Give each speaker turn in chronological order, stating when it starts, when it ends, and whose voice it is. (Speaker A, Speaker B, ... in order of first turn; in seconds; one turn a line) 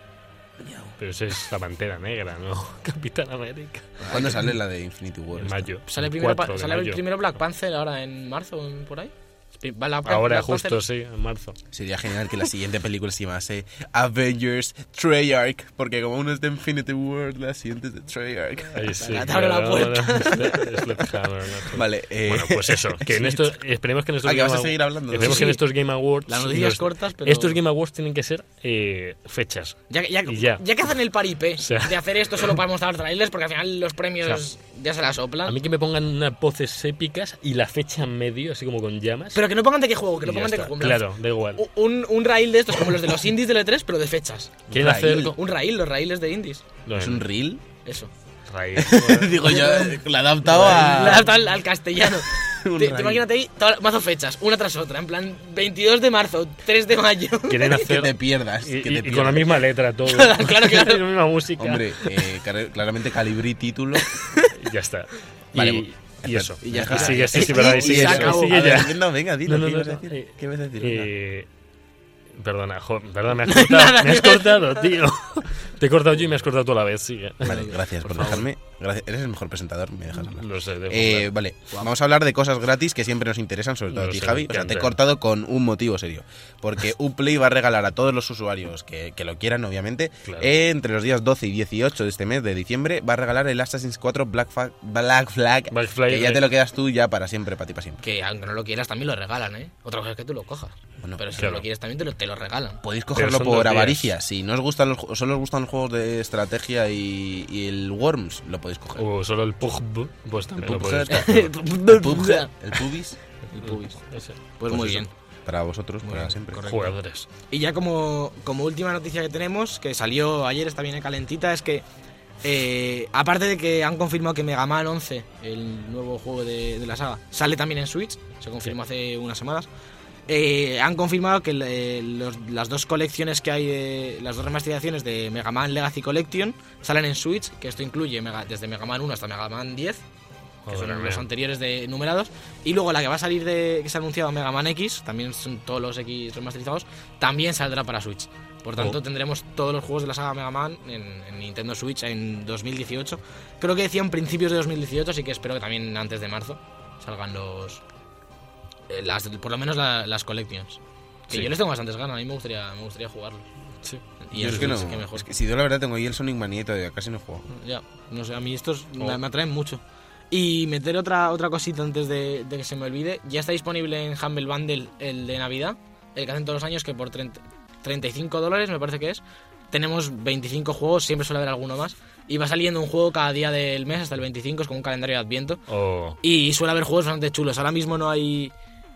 Speaker A: 0.6-1.0
Speaker B: 1.0-4.3
Speaker C: 4.0-4.5
Speaker A: 4.1-5.7
Speaker B: 5.4-7.0
Speaker C: 5.9-10.8
Speaker B: 10.1-11.6
Speaker A: 11.7-19.2
Speaker B: 18.8-30.6
Speaker C: 19.0-20.8
Speaker A: 21.7-23.6
Speaker A: 24.2-25.5
Speaker C: 25.2-25.6
Speaker C: 26.3-27.6
Speaker C: 29.9-35.6
Speaker B: 31.6-32.6
Speaker B: 35.5-39.4
Speaker C: 39.3-46.6
Speaker B: 40.2-41.6
Speaker B: 44.7-45.4
Speaker A: 44.7-45.3
Speaker B: 46.9-47.3
Speaker A: 47.0-47.6
Speaker C: 47.9-48.1
Speaker B: 48.5-49.7
Speaker A: 48.8-51.3
Speaker C: 49.4-57.9
Speaker B: 50.6-51.2
Speaker A: 52.3-53.2
Speaker B: 57.5-62.4
Speaker A: 57.7-59.6
Speaker C: 60.0-61.0
Speaker A: 61.6-64.1
Speaker C: 64.1-64.5
Speaker B: 64.5-71.5
Speaker A: 65.5-71.1
Speaker C: 66.8-68.8
Speaker B: 72.4-77.6
Speaker C: 73.5-74.8
Speaker A: 77.4-98.0
Speaker C: 77.5-78.4
Speaker B: 78.2-78.4
Speaker B: 80.2-81.3
Speaker B: 83.9-85.0
Speaker B: 90.2-90.5
Speaker B: 95.7-96.5
Speaker C: 98.0-102.8
Speaker A: 101.0-101.3
Speaker B: 101.4-101.6
Speaker A: 102.8-109.1
Speaker B: 103.1-104.1
Speaker B: 109.0-111.5
Speaker A: 110.6-113.2
Speaker C: 111.1-112.8
Speaker C: 113.5-115.1
Speaker B: 113.7-114.4
Speaker A: 114.7-116.6
Speaker C: 116.0-117.0
Speaker B: 116.6-117.3
Speaker C: 117.5-121.8
Speaker C: 122.4-129.7
Speaker C: 130.3-140.0
Speaker B: 140.7-141.3
Speaker C: 140.7-157.8
Speaker C: 158.9-163.5
Speaker B: 163.8-164.7
Speaker C: 164.2-165.3
Speaker A: 164.3-167.5
Speaker C: 167.5-185.6
Speaker B: 185.7-186.2
Speaker C: 186.2-188.5